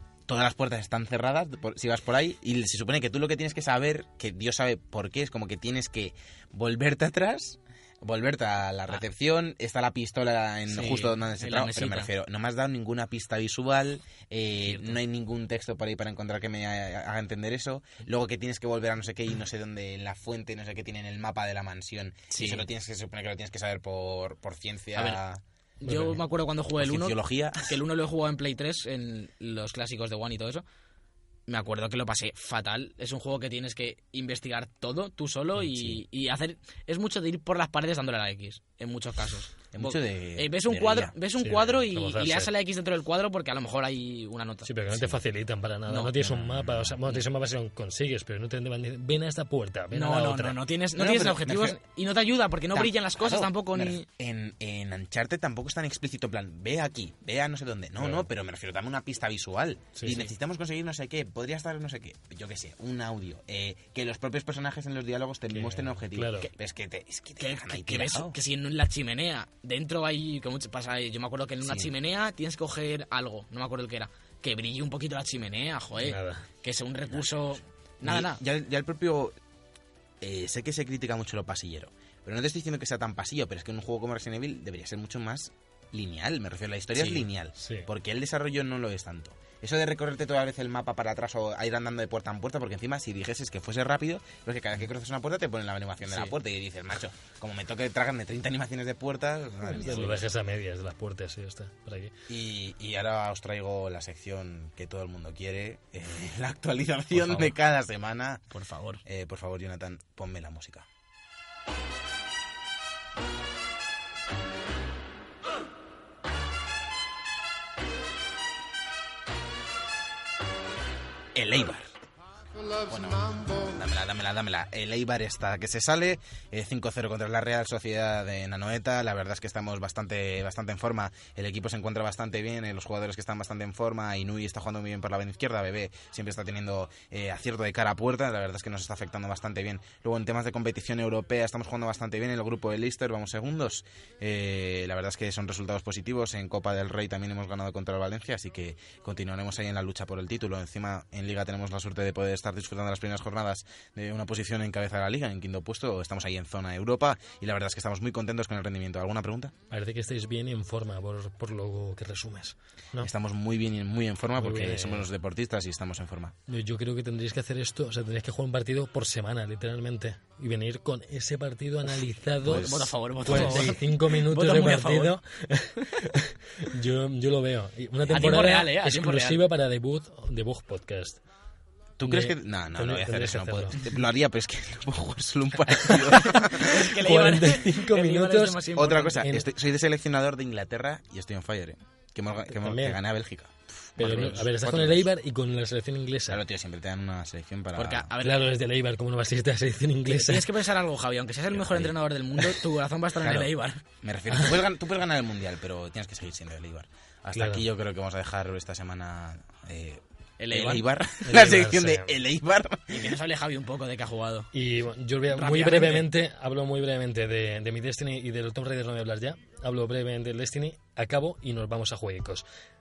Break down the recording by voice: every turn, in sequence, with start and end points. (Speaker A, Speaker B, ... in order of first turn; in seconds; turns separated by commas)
Speaker A: 0.3-25.4, Speaker B: 10.7-12.1, Speaker B: 14.6-15.0, Speaker B: 22.3-22.6, Speaker B: 24.9-25.2, Speaker B: 25.8-30.6, Speaker C: 25.9-26.1, Speaker A: 26.8-27.8, Speaker B: 31.5-44.7, Speaker A: 39.7-41.1, Speaker C: 41.4-42.5, Speaker C: 44.6-50.6, Speaker B: 45.9-46.4, Speaker A: 46.4-46.9, Speaker B: 49.9-54.0, Speaker A: 51.0-51.8, Speaker A: 52.7-68.3, Speaker C: 58.0-58.2, Speaker C: 65.5-66.5, Speaker B: 67.4-78.4, Speaker A: 71.6-71.9, Speaker C: 76.0-76.4, Speaker A: 78.0-79.4, Speaker A: 80.2-100.3, Speaker B: 87.0-87.2, Speaker C: 87.6-87.9, Speaker B: 96.0-96.3, Speaker C: 99.7-102.1, Speaker A: 102.3-108.4, Speaker B: 107.2-107.5, Speaker B: 108.5-109.0, Speaker A: 109.0-110.9, Speaker A: 121.3-121.9, Speaker A: 122.8-159.5, Speaker C: 159.7-163.1, Speaker A: 163.0-166.3, Speaker C: 164.4-165.1, Speaker C: 166.5-181.2, Speaker A: 172.4-173.6, Speaker B: 172.4-175.1, Speaker B: 178.0-179.4, Speaker A: 182.0-186.9, Speaker C: 182.1-183.9, Speaker C: 185.9-189.5, Speaker B: 186.6-189.3, Speaker A: 188.7-195.1, Speaker C: 192.5-193.0, Speaker C: 194.0-196.4, Speaker B: 194.1-194.3, Speaker A: 196.3-198.1, Speaker B: 197.8-198.4, Speaker C: 198.2-200.5, Speaker B: 200.0-203.8, Speaker A: 201.5-202.0, Speaker A: 203.2-213.2, Speaker C: 207.3-207.7, Speaker B: 210.4-210.8, Speaker C: 211.2-212.1, Speaker B: 212.9-214.5, Speaker C: 214.5-222.4, Speaker B: 215.3-216.1